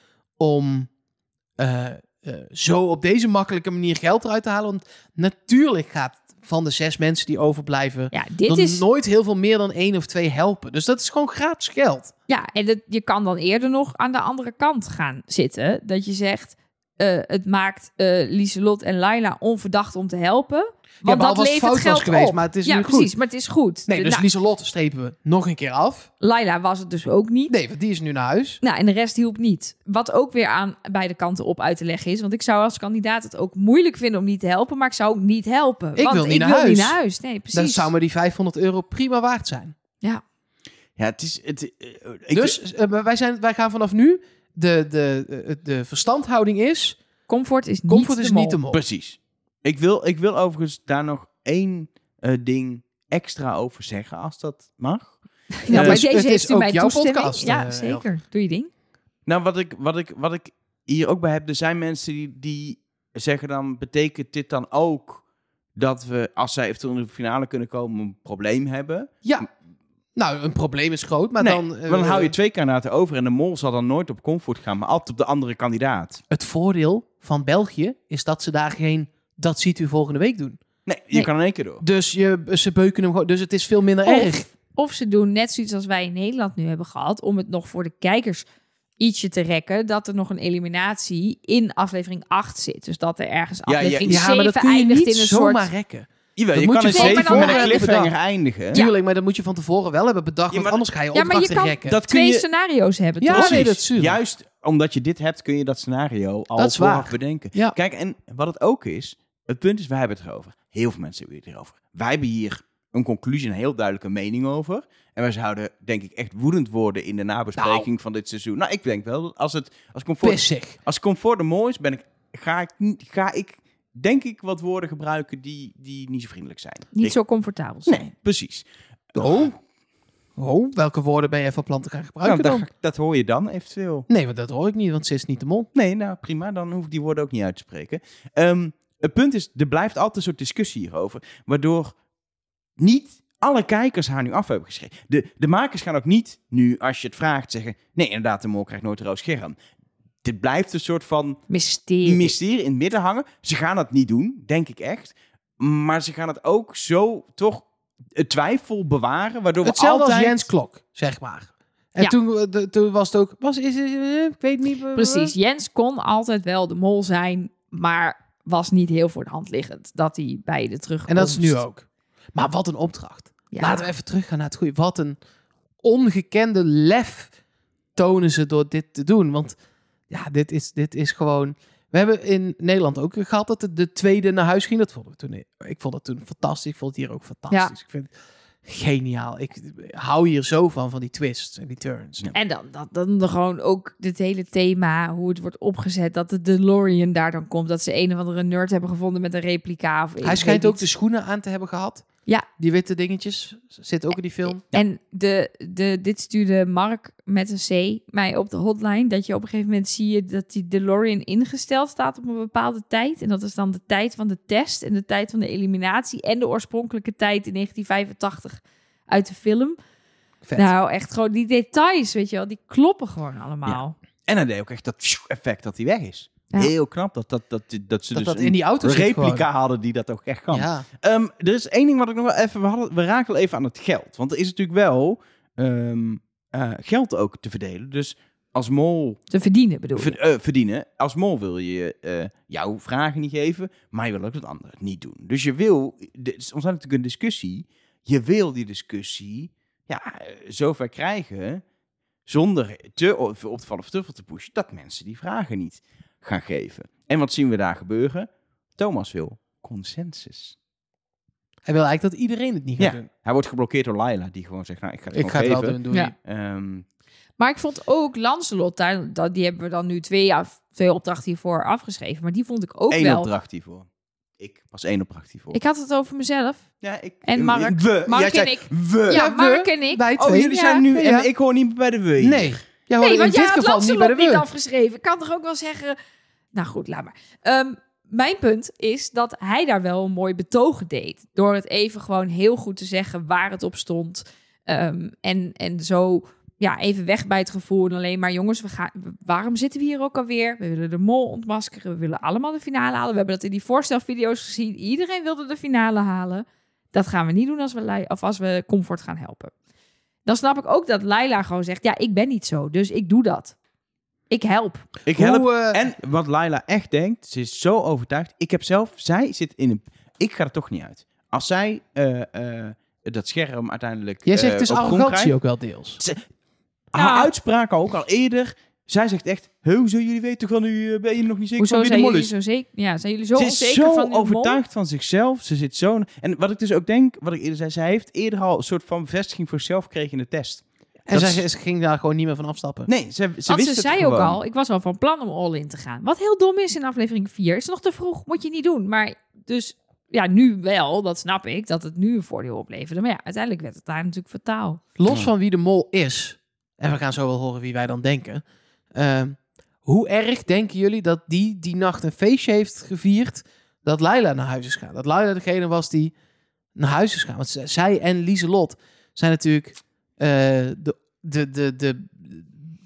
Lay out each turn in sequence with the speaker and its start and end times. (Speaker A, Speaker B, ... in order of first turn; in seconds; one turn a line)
Speaker A: 0.4-0.9
Speaker A: 1.6-12.1
Speaker B: 8.1-8.8
Speaker B: 12.3-24.2
Speaker A: 21.0-23.1
Speaker A: 23.9-26.1
Speaker B: 26.2-27.5
Speaker A: 27.5-28.6
Speaker B: 28.6-37.9
Speaker A: 36.0-37.0
Speaker A: 37.5-39.8
Speaker C: 41.0-42.6
Speaker A: 42.3-47.0
Speaker B: 47.3-48.6
Speaker A: 47.9-48.8
Speaker C: 48.7-56.0
Speaker B: 55.7-58.7
Speaker A: 55.7-58.0
Speaker C: 59.3-65.2
Speaker C: 65.8-69.1
Speaker A: 70.1-72.3
Speaker C: 71.4-76.2
Speaker A: 76.3-80.6
Speaker C: 80.9-81.8
Speaker A: 81.8-84.5
Speaker B: 84.0-88.5
Speaker B: 89.0-95.7
Speaker C: 93.7-94.2
Speaker A: 94.1-98.1
Speaker C: 96.4-98.8
Speaker B: 96.9-97.9
Speaker A: 98.7-102.0
Speaker C: 100.5-100.8
Speaker B: 101.1-103.7
Speaker C: 101.8-102.4
Speaker A: 103.2-104.2
Speaker C: 103.3-127.2
Speaker A: 106.6-107.8
Speaker A: 117.5-117.9
Speaker A: 120.2-120.8
Speaker B: 127.0-128.0
Speaker C: 127.9-129.6
Speaker A: 129.1-129.5
Speaker A: 130.4-132.7
Speaker C: 132.2-134.1
Speaker A: 134.1-135.7
Speaker C: 135.7-142.0
Speaker C: 142.8-149.6
Speaker C: 150.2-151.4
Speaker B: 151.5-152.3
Speaker C: 152.0-160.5
Speaker A: 159.6-165.3
Speaker B: 164.9-171.6
Speaker A: 171.1-175.2
Speaker B: 173.5-173.9
Speaker A: 175.8-177.3
Speaker A: 177.9-179.6
Speaker A: 180.1-188.1
Speaker A: 188.6-192.3
Speaker B: 192.3-200.8
Speaker A: 200.2-202.1
Speaker A: 202.6-204.6
Speaker C: 204.5-204.8
Speaker B: 204.7-219.8
Speaker A: 220.4-220.7
Speaker B: 220.6-223.9
Speaker C: 223.7-239.2
Speaker A: 228.1-229.4
Speaker A: 230.5-230.9
Speaker B: 239.3-240.2
Speaker C: 239.9-251.6
Speaker C: 252.3-260.6
Speaker A: 261.6-263.1
Speaker C: 262.8-266.8
Speaker A: 265.1-266.1
Speaker B: 267.4-273.3
Speaker C: 272.9-273.9
Speaker C: 274.4-275.6
Speaker B: 275.5-276.7
Speaker C: 276.8-279.3
Speaker B: 277.2-280.8
Speaker A: 279.1-281.3
Speaker C: 280.2-282.6
Speaker A: 282.2-284.5
Speaker B: 283.0-286.0
Speaker B: 286.5-309.5
Speaker B: 310.3-313.6
Speaker B: 314.3-314.9
Speaker C: 315.1-325.3
Speaker A: 315.1-315.8
Speaker A: 324.3-326.0
Speaker C: 326.0-326.2
Speaker C: 326.9-332.3
Speaker B: 327.0-327.3
Speaker B: 331.6-334.6
Speaker C: 333.4-341.4
Speaker A: 341.1-342.9
Speaker C: 342.9-344.4
Speaker B: 343.5-354.8
Speaker A: 355.0-366.1
Speaker A: 366.8-372.5